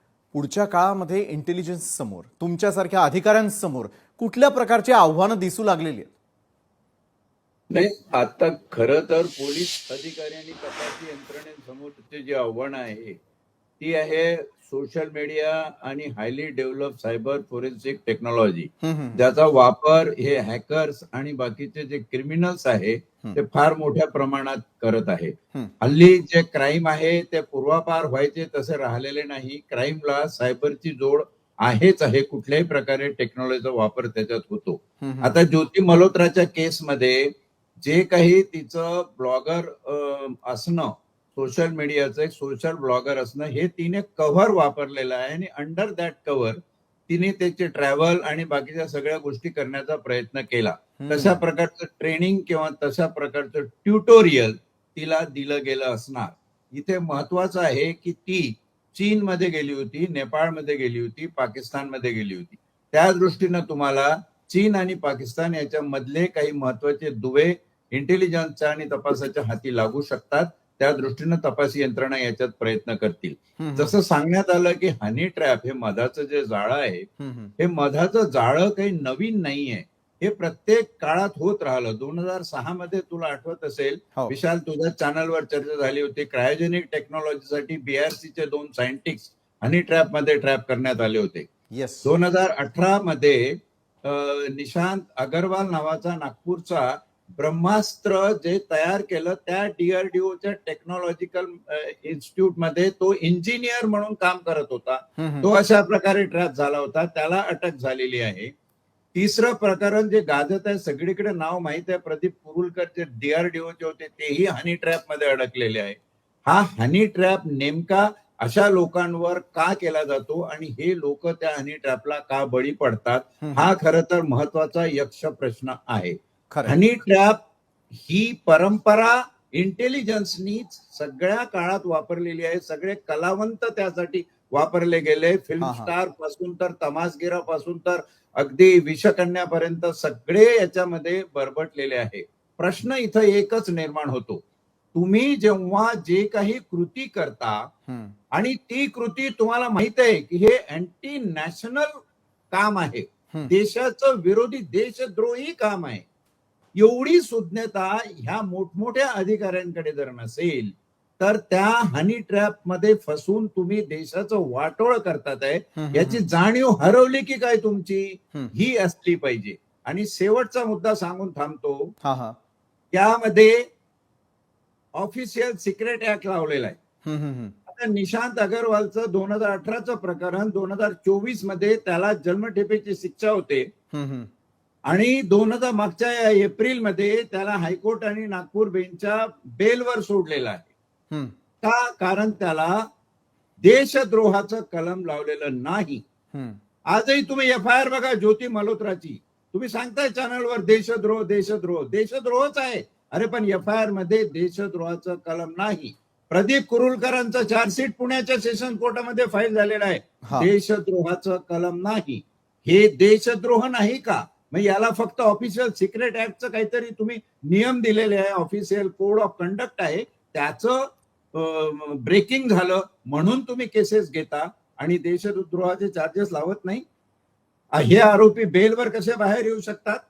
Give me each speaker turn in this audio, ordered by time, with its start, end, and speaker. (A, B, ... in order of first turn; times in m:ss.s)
0:00.3-0:06.1 A
0:07.7-0:13.2 B
0:13.8-1:17.1 B
0:18.8-0:19.2 A
0:35.0-0:35.4 A
0:51.0-0:51.4 A
1:13.6-1:14.0 A
1:17.2-1:17.5 A
1:17.6-1:31.5 B
1:31.7-1:32.1 A
1:32.0-1:48.5 B
1:45.2-1:45.5 A
1:49.1-2:07.4 B
2:03.4-2:03.7 A
2:06.5-2:06.8 A
2:07.9-2:24.4 B
2:15.6-2:15.9 A
2:24.9-2:27.7 B
2:27.9-2:28.2 A
2:28.3-2:32.0 B
2:32.5-2:36.1 B
2:36.8-2:51.9 B
2:45.8-2:46.2 A
2:52.0-2:52.4 A
2:52.9-2:53.6 B
2:55.0-2:56.8 B
2:57.1-2:57.6 A
2:57.7-3:03.7 B
3:03.9-3:04.3 A
3:04.9-3:10.7 B
3:11.6-3:12.8 B
3:13.6-3:16.0 B
3:16.3-3:16.6 A
3:16.9-3:46.8 B
3:30.2-3:30.5 A
3:47.7-3:50.0 B